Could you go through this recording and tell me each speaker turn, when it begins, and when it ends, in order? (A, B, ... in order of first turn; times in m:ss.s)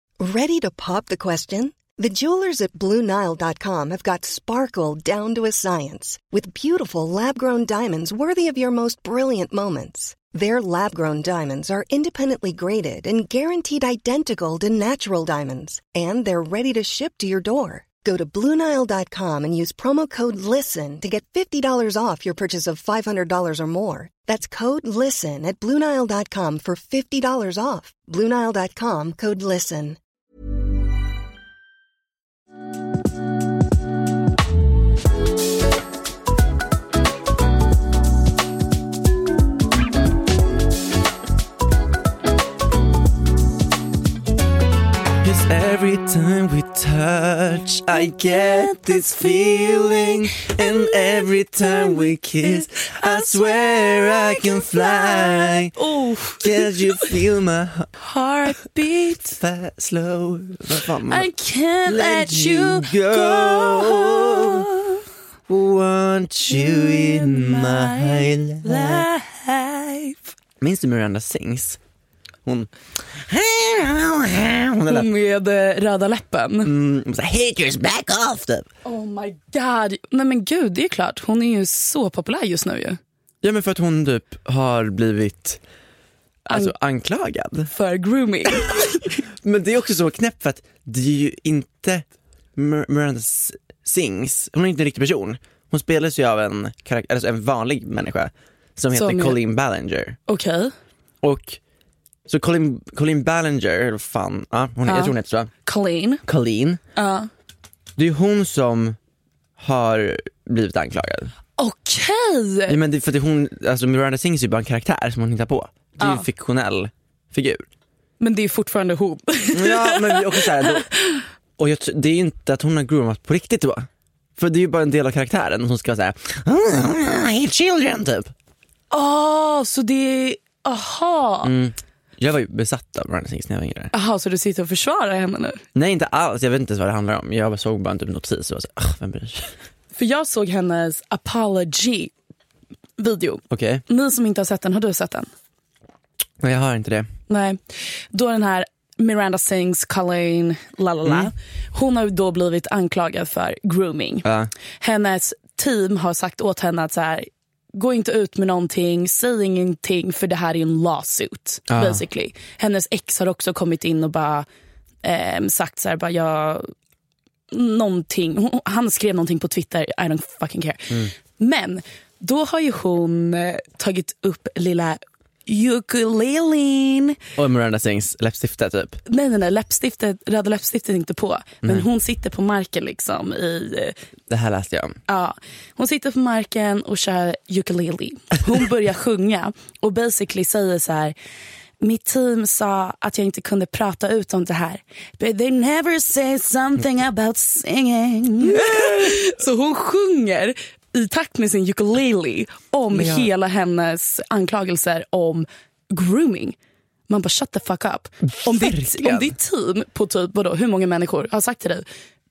0:00.2-0:30.0 A
0:45.2-0:55.7 B
0:47.9-0:57.2 C
0:56.4-0:57.9 B
0:58.0-0:59.4 C
0:59.4-1:01.3 B
1:01.1-1:05.0 C
1:01.8-1:04.7 B
1:05.5-1:09.0 B
1:06.5-1:10.3 C
1:10.6-1:11.8 B
1:12.4-1:15.1 B
1:14.9-1:16.7 C
1:16.6-1:18.7 B
1:18.8-1:23.0 C
1:23.4-1:25.6 B
1:26.5-1:27.7 B
1:27.7-1:29.2 C
1:28.5-1:28.8 B
1:29.4-1:32.0 B
1:32.6-1:40.2 B
1:38.9-1:39.4 C
1:40.3-1:40.7 C
1:41.2-1:41.6 B
1:42.3-1:45.5 B
1:44.8-1:45.1 C
1:45.6-1:46.2 C
1:46.2-1:46.8 B
1:47.0-1:47.3 C
1:48.0-1:49.0 B
1:49.6-1:51.3 B
1:51.6-1:52.8 C
1:52.7-1:57.6 B
1:56.0-1:56.2 C
1:58.2-2:01.2 C
1:59.5-2:00.9 B
2:01.6-2:08.3 B
2:08.9-2:11.5 C
2:11.4-2:13.9 B
2:13.9-2:15.6 C
2:15.7-2:19.5 B
2:19.9-2:22.1 C
2:23.0-2:25.3 C
2:23.5-2:23.8 B
2:26.4-2:27.1 B
2:27.3-2:27.6 C
2:28.1-2:34.2 C
2:31.0-2:31.3 B
2:34.2-2:34.5 B
2:34.8-2:44.5 C
2:41.7-2:42.0 B
2:45.0-2:46.7 C
2:47.5-2:57.2 C
2:57.4-2:59.0 B
2:59.0-3:04.0 C
3:04.3-3:05.0 B
3:05.1-3:11.1 C
3:11.8-3:26.6 C
3:18.4-3:19.2 B
3:22.9-3:23.3 B
3:27.1-3:31.8 C
3:28.2-3:29.3 B